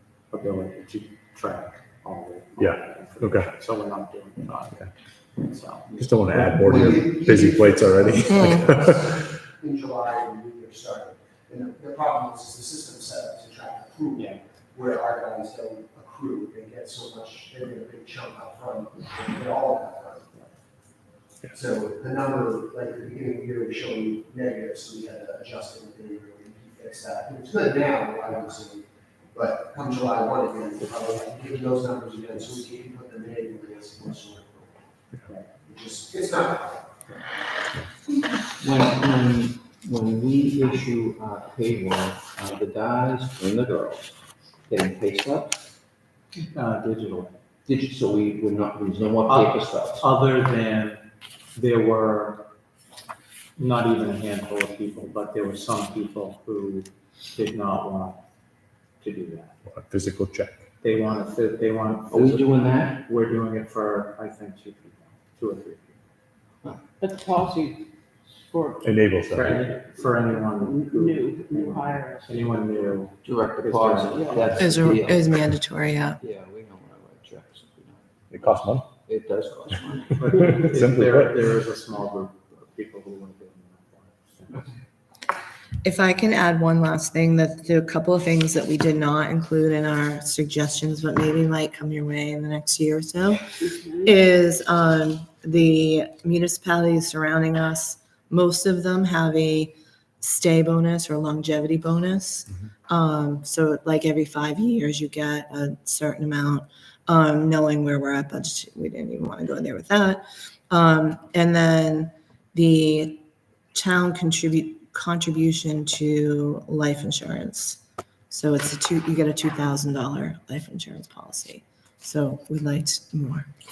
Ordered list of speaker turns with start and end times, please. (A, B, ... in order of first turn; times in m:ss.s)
0:00.3-0:06.0 A
0:02.6-0:03.5 B
0:05.9-0:09.2 B
0:06.3-0:20.3 C
0:14.2-0:14.4 A
0:21.5-0:34.7 C
0:35.6-0:36.9 C
0:38.2-0:45.6 D
0:46.5-0:47.4 A
0:47.7-0:50.1 D
0:49.2-0:51.0 A
0:51.5-0:52.4 A
0:53.6-0:58.2 A
0:59.0-0:59.6 A
0:59.7-1:00.6 B
1:00.8-1:06.0 A
1:02.1-1:03.0 D
1:07.0-1:09.0 E
1:08.8-1:09.7 B
1:09.3-1:14.6 A
1:10.4-1:12.5 E
1:13.2-1:15.4 D
1:14.1-1:14.5 E
1:14.6-1:16.2 F
1:16.2-1:20.4 D
1:18.3-1:18.9 B
1:20.2-1:24.8 A
1:20.4-1:21.3 B
1:25.8-1:33.4 F
1:33.7-1:34.1 E
1:34.0-2:03.5 F